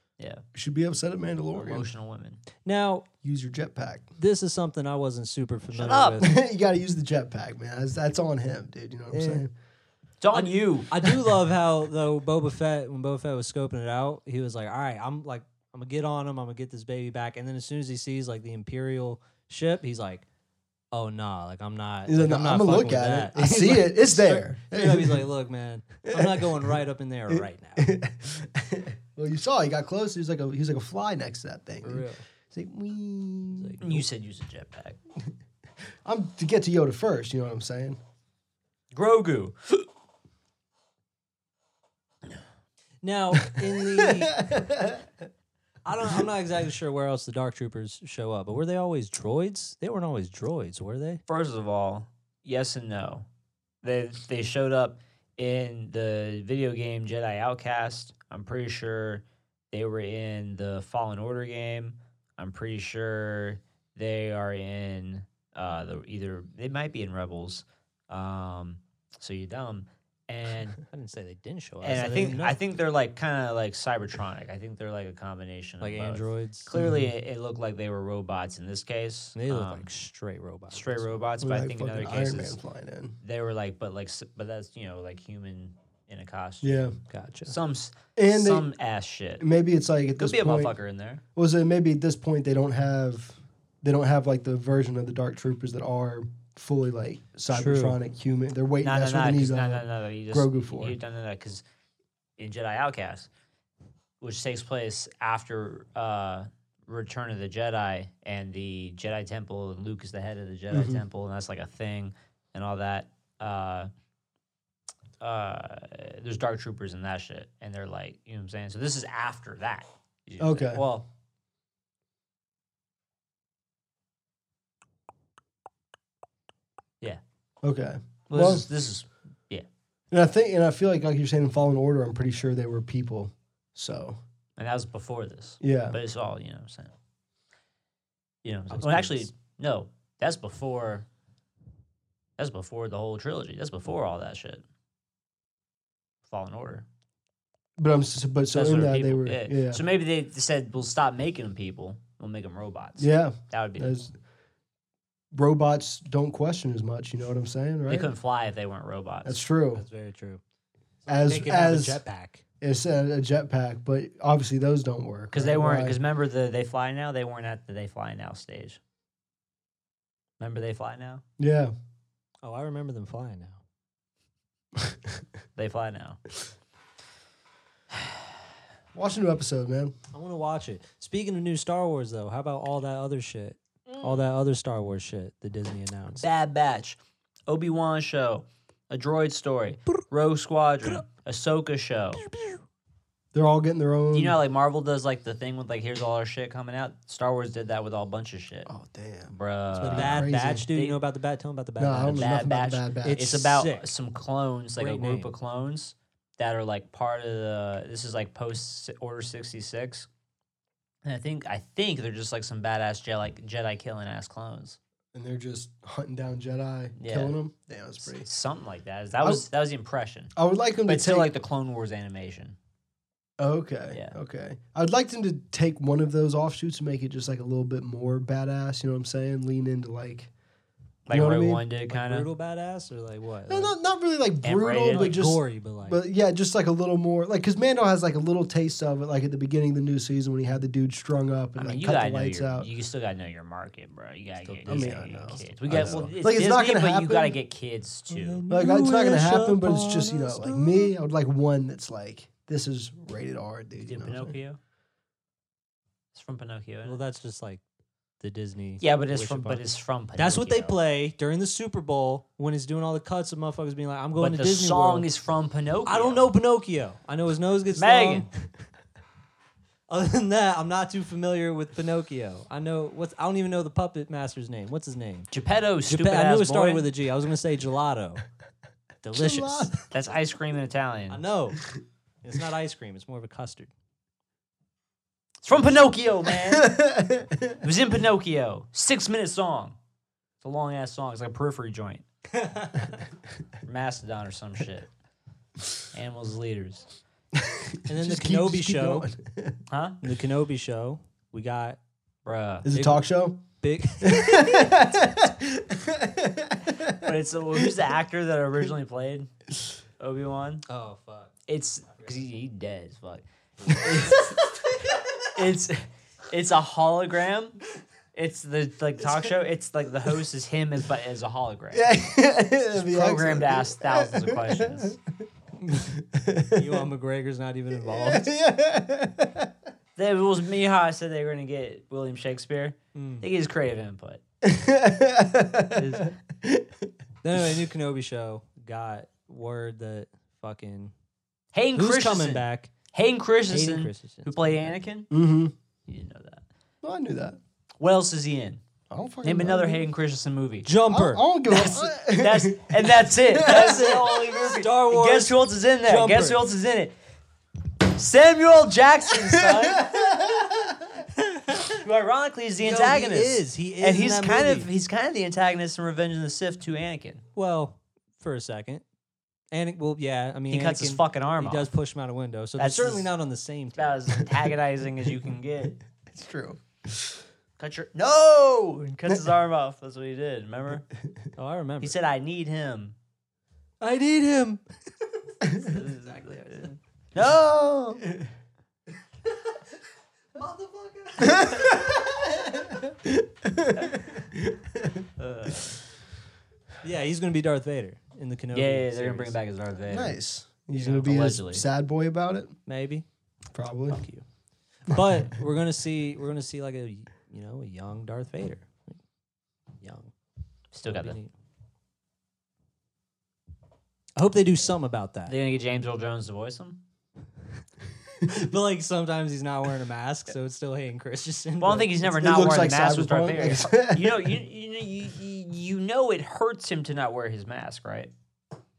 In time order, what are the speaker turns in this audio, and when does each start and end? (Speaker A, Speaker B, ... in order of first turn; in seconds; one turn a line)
Speaker A: 0.2-0.4
Speaker B: 0.6-1.9
Speaker A: 1.5-2.4
Speaker C: 2.6-3.1
Speaker B: 3.2-4.1
Speaker C: 4.2-6.4
Speaker A: 5.7-6.2
Speaker B: 6.2-9.5
Speaker C: 9.1-9.4
Speaker A: 10.2-10.9
Speaker C: 10.3-20.2
Speaker C: 20.9-27.9
Speaker B: 22.1-25.2
Speaker B: 26.1-26.7
Speaker B: 27.3-34.0
Speaker C: 31.8-32.2
Speaker C: 33.5-33.9
Speaker A: 33.8-35.0
Speaker B: 36.0-38.0
Speaker A: 38.9-39.9
Speaker C: 43.0-44.5
Speaker B: 44.0-45.1
Speaker C: 45.9-51.2
Speaker A: 51.3-53.3
Speaker A: 53.8-70.8
Speaker C: 70.8-72.6
Speaker A: 71.8-79.9
Speaker C: 75.8-76.7
Speaker B: 76.8-77.1
Speaker C: 79.3-81.2
Speaker A: 80.7-82.6
Speaker B: 81.4-83.2
Speaker A: 83.2-86.9
Speaker B: 86.6-87.0
Speaker C: 87.1-87.6
Speaker A: 87.5-89.4
Speaker B: 88.2-88.7
Speaker B: 89.4-90.7
Speaker A: 90.2-91.2
Speaker B: 91.3-101.0
Speaker C: 97.5-98.0
Speaker A: 98.8-101.6
Speaker A: 102.4-103.3
Speaker A: 104.2-113.9
Speaker B: 110.7-111.0
Speaker A: 115.2-121.1
Speaker B: 120.4-120.8
Speaker B: 127.6-128.7
Speaker A: 128.3-129.7
Speaker B: 130.1-134.2
Speaker A: 134.6-136.9
Speaker B: 135.6-136.0
Speaker A: 138.4-141.1
Speaker C: 138.7-139.3
Speaker A: 142.4-144.6
Speaker A: 146.3-146.9
Speaker B: 147.8-149.8
Speaker A: 148.5-153.9
Speaker B: 153.0-154.1
Speaker B: 155.3-158.1
Speaker A: 157.9-159.4
Speaker B: 159.2-159.8
Speaker C: 159.8-160.4
Speaker C: 161.0-162.4
Speaker B: 161.1-162.0
Speaker B: 162.6-166.0
Speaker A: 165.3-168.8
Speaker A: 170.4-171.2
Speaker B: 171.4-171.7
Speaker C: 172.4-173.6
Speaker A: 175.6-176.2
Speaker B: 178.9-179.9
Speaker C: 180.1-186.3
Speaker A: 183.9-184.2
Speaker A: 186.2-187.0
Speaker A: 187.5-192.2
Speaker C: 192.3-192.6
Speaker B: 193.3-194.4
Speaker A: 194.1-198.7
Speaker B: 198.7-200.7
Speaker A: 199.3-201.0
Speaker C: 199.8-202.3
Speaker B: 201.8-203.2
Speaker A: 202.1-210.1
Speaker C: 203.0-203.9
Speaker C: 204.8-205.3
Speaker A: 211.1-214.8
Speaker B: 215.1-218.3
Speaker A: 217.0-217.3
Speaker A: 218.0-220.3
Speaker B: 220.4-221.3
Speaker A: 220.9-222.6
Speaker B: 223.4-230.3
Speaker A: 231.1-232.3
Speaker B: 231.1-231.6
Speaker C: 231.9-233.7
Speaker B: 233.5-242.7
Speaker A: 234.4-235.2
Speaker C: 234.9-236.0
Speaker A: 241.6-248.4
Speaker C: 244.4-246.1
Speaker B: 244.7-247.4
Speaker C: 248.1-250.9
Speaker B: 248.5-254.4
Speaker A: 253.8-254.6
Speaker A: 256.1-257.0
Speaker C: 256.9-257.6
Speaker C: 258.2-259.6
Speaker A: 258.8-260.8
Speaker C: 260.2-265.1
Speaker A: 264.2-266.3
Speaker C: 265.9-268.3
Speaker A: 267.8-268.3
Speaker C: 269.9-275.3
Speaker A: 275.3-276.9
Speaker C: 275.9-278.2
Speaker C: 279.0-279.9
Speaker B: 279.1-279.7
Speaker A: 279.9-281.2
Speaker C: 281.1-281.6
Speaker C: 282.2-283.7
Speaker A: 285.4-286.8
Speaker B: 286.4-287.6
Speaker A: 287.6-289.8
Speaker A: 290.4-292.0
Speaker C: 292.3-293.0
Speaker A: 293.6-294.9
Speaker A: 295.9-296.9
Speaker B: 297.4-299.6
Speaker C: 297.9-299.1
Speaker A: 299.7-300.0
Speaker C: 300.0-301.8
Speaker A: 302.3-302.7
Speaker B: 302.6-303.4
Speaker C: 302.7-305.1
Speaker B: 304.0-307.7
Speaker A: 307.0-309.3
Speaker A: 310.0-310.6
Speaker C: 310.7-311.4
Speaker A: 311.5-314.4
Speaker C: 311.9-312.2
Speaker C: 313.7-314.4
Speaker B: 313.8-314.2
Speaker A: 315.2-317.6
Speaker A: 318.1-321.9
Speaker B: 321.7-325.0
Speaker A: 322.7-325.0
Speaker B: 325.7-326.9
Speaker C: 326.6-328.3
Speaker B: 327.8-329.5
Speaker A: 330.0-334.2
Speaker C: 332.9-333.2
Speaker B: 334.4-336.9
Speaker A: 335.8-336.1
Speaker C: 337.2-340.9
Speaker A: 341.5-345.1
Speaker C: 341.8-342.7
Speaker C: 343.5-344.8
Speaker B: 345.1-345.5
Speaker A: 345.9-346.4
Speaker B: 346.8-347.4
Speaker A: 347.8-348.6
Speaker B: 348.9-349.8
Speaker A: 349.2-350.7
Speaker C: 350.6-351.2
Speaker B: 350.9-354.0
Speaker A: 351.5-356.9
Speaker C: 353.4-356.4
Speaker A: 358.0-360.2
Speaker B: 359.4-361.0
Speaker C: 361.2-361.8
Speaker A: 361.7-367.2
Speaker C: 362.6-364.7
Speaker C: 367.4-368.8
Speaker C: 369.5-374.3
Speaker A: 370.5-371.7
Speaker A: 372.6-373.1
Speaker A: 373.8-375.8
Speaker B: 376.1-377.2
Speaker A: 377.6-380.9
Speaker C: 381.4-381.9
Speaker A: 381.8-383.0
Speaker C: 383.8-384.6
Speaker C: 385.4-386.8
Speaker A: 385.5-388.1
Speaker C: 390.4-392.0
Speaker B: 391.2-395.1
Speaker A: 395.2-395.8
Speaker C: 396.8-399.4
Speaker A: 398.5-400.2
Speaker B: 399.9-402.5
Speaker A: 400.8-401.6
Speaker C: 400.8-401.1
Speaker C: 402.7-403.1
Speaker B: 403.5-404.1
Speaker C: 403.9-404.2
Speaker C: 404.9-409.0
Speaker C: 409.8-410.1
Speaker A: 410.7-411.2
Speaker C: 410.9-411.3
Speaker C: 414.2-415.3
Speaker A: 415.3-416.8
Speaker C: 418.2-421.9
Speaker A: 421.6-428.1
Speaker B: 422.1-424.4